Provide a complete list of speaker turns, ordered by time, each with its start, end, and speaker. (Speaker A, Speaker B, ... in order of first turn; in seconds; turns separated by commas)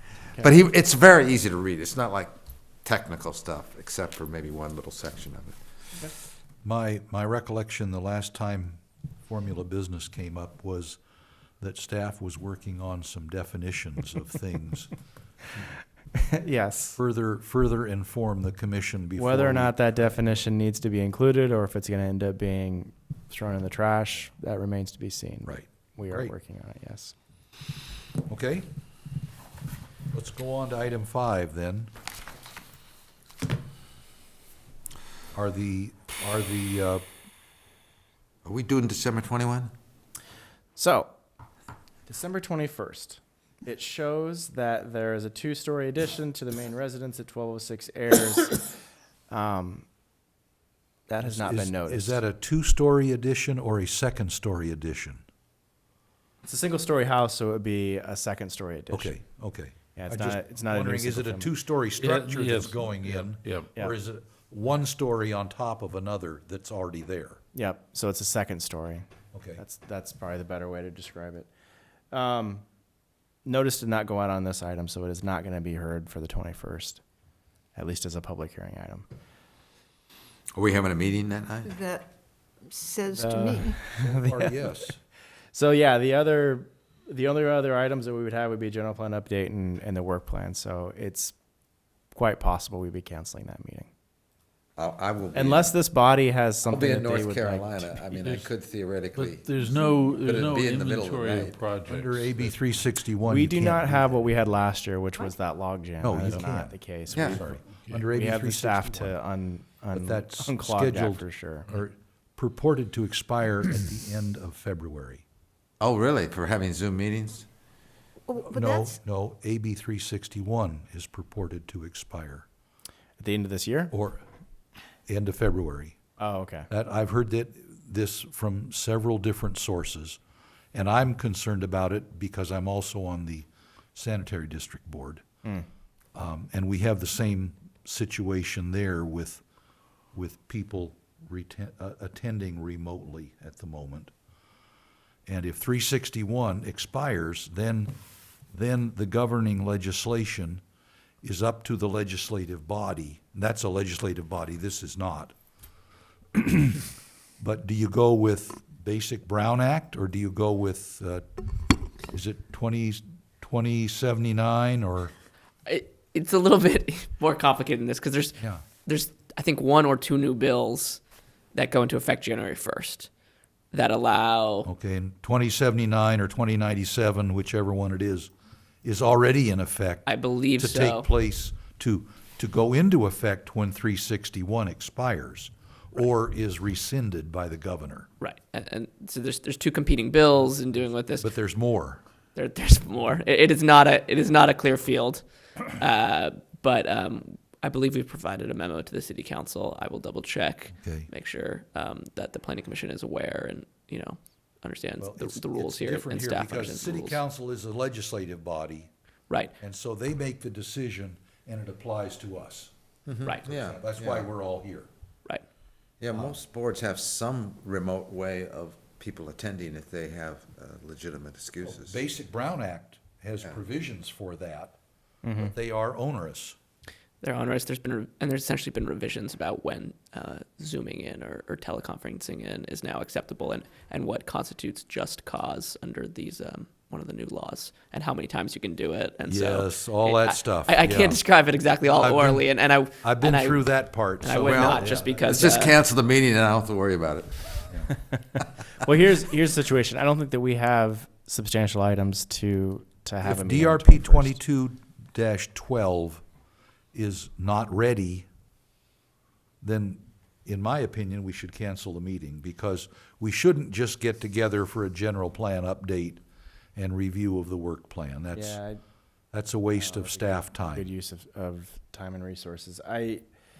Speaker A: 0.3-5.6, Speaker B: 6.6-11.0, Speaker B: 11.6-14.9, Speaker C: 16.1-17.0, Speaker B: 17.0-20.2, Speaker C: 19.2-27.1, Speaker B: 25.5-26.3, Speaker B: 28.3-28.7, Speaker B: 30.1-31.9, Speaker B: 35.3-37.0, Speaker A: 38.5-39.7, Speaker C: 40.8-41.1, Speaker C: 42.1-48.7, Speaker C: 49.3-49.9, Speaker C: 51.1-52.2, Speaker B: 51.2-55.2, Speaker C: 56.4-59.2, Speaker B: 58.9-67.4, Speaker C: 59.9-61.5, Speaker D: 62.0-63.8, Speaker C: 67.5-71.5, Speaker B: 69.3-69.6, Speaker C: 72.1-72.6, Speaker C: 73.5-77.0, Speaker C: 77.8-79.1, Speaker A: 80.6-81.8, Speaker E: 81.7-82.1, Speaker E: 82.7-83.8, Speaker C: 83.1-84.9, Speaker B: 84.0-85.0, Speaker C: 85.5-91.3, Speaker C: 92.1-93.9, Speaker A: 94.8-95.7, Speaker C: 95.3-97.9, Speaker A: 96.7-101.6, Speaker D: 98.1-98.5, Speaker D: 99.1-102.6, Speaker B: 101.9-104.1, Speaker C: 103.3-107.6, Speaker B: 106.0-109.1, Speaker A: 107.1-107.4, Speaker D: 107.2-108.1, Speaker C: 108.1-111.7, Speaker B: 110.0-115.2, Speaker A: 115.8-117.5, Speaker E: 118.3-119.0, Speaker B: 118.4-122.5, Speaker C: 123.2-123.9, Speaker B: 123.9-124.2, Speaker B: 125.1-126.0, Speaker C: 126.2-126.7, Speaker B: 126.7-130.2, Speaker B: 130.7-135.2, Speaker B: 136.2-139.4, Speaker B: 140.1-144.1, Speaker B: 145.3-147.9, Speaker B: 148.5-150.6, Speaker B: 151.2-155.3, Speaker B: 156.3-156.8, Speaker B: 157.4-165.1, Speaker F: 165.7-171.0, Speaker F: 171.5-173.1, Speaker F: 173.7-174.7, Speaker B: 174.7-178.3, Speaker B: 178.8-188.1, Speaker F: 180.1-181.1, Speaker F: 188.2-191.3, Speaker B: 191.2-192.0, Speaker F: 192.4-207.2, Speaker B: 200.8-201.1, Speaker B: 205.0-208.9, Speaker B: 209.6-212.7, Speaker A: 213.1-214.3, Speaker B: 213.4-214.9, Speaker A: 216.0-222.0, Speaker B: 221.6-224.8, Speaker C: 225.2-225.5, Speaker B: 225.4-226.6, Speaker F: 227.2-245.8, Speaker B: 239.3-241.2, Speaker B: 241.8-245.6, Speaker A: 244.4-247.7, Speaker C: 248.2-254.4, Speaker B: 253.2-256.2, Speaker B: 256.9-258.3, Speaker B: 259.6-266.2, Speaker B: 266.8-268.6, Speaker C: 268.3-268.8, Speaker B: 269.3-270.9, Speaker C: 269.7-273.2